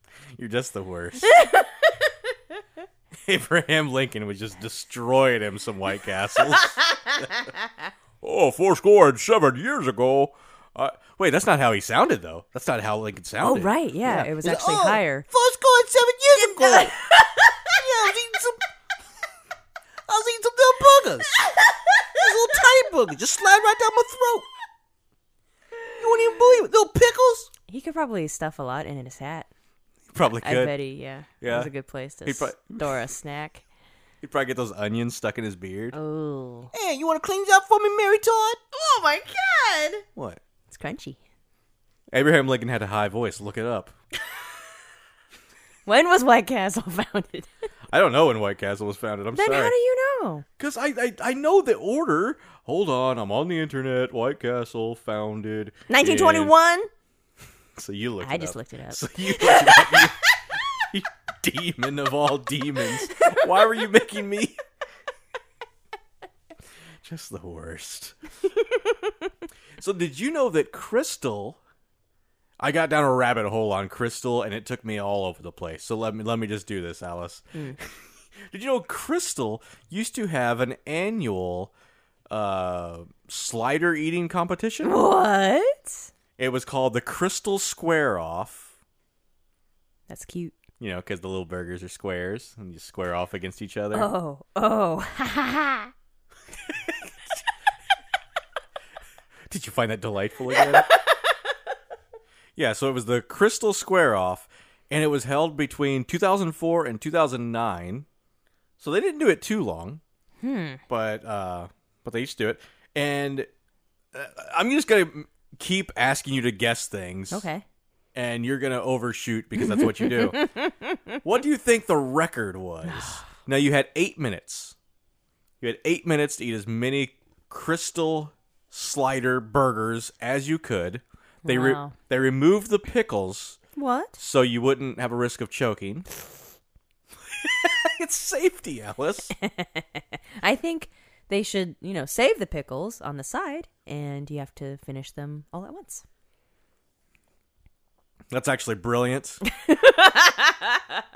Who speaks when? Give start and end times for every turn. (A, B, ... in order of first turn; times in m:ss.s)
0:00.3-0:01.4 A
0:01.4-0:01.7 B
0:03.2-0:07.3 A
0:08.2-0:14.3 A
0:13.4-0:15.2 B
0:14.4-0:17.0 C
0:16.4-0:17.4 B
0:17.7-0:18.6 C
0:20.1-0:21.4 C
0:22.1-0:24.5 C
0:26.0-0:27.5 C
0:27.7-0:29.5 B
0:30.1-0:30.8 A
0:30.4-0:33.6 B
0:31.4-0:31.7 A
0:32.2-0:33.0 A
0:34.2-0:36.0 A
0:35.9-0:36.7 B
0:36.7-0:38.6 C
0:38.7-0:40.0 B
0:40.2-0:40.4 A
0:40.7-0:41.2 B
0:42.1-0:43.9 A
0:45.8-0:47.5 B
0:47.9-0:49.7 A
0:49.3-0:50.4 B
0:50.6-0:56.5 A
0:55.9-0:56.9 B
0:57.8-1:00.2 A
0:58.2-1:00.1 B
1:00.7-1:04.6 A
1:07.0-1:08.2 A
1:09.8-1:11.6 A
1:12.6-1:21.7 A
1:22.3-1:25.0 A
1:24.8-1:26.1 B
1:26.4-1:28.7 A
1:30.1-1:30.6 B
1:30.8-1:34.1 A
1:33.9-1:35.9 B
1:39.5-1:40.9 A
1:40.9-1:41.2 B
1:42.6-1:48.0 A
1:48.8-1:50.0 A
1:50.4-1:50.8 B
1:50.9-1:53.5 A
1:54.1-1:57.4 A
1:57.3-1:57.6 B
1:58.1-2:00.4 A
1:59.6-2:01.1 B
2:01.2-2:04.8 A
2:02.9-2:03.2 B
2:05.6-2:13.6 A
2:11.4-2:11.9 B
2:13.8-2:14.2 B
2:14.2-2:16.1 A
2:17.3-2:19.3 A
2:19.4-2:26.0 B
2:28.3-2:29.4 A
2:29.5-2:30.8 B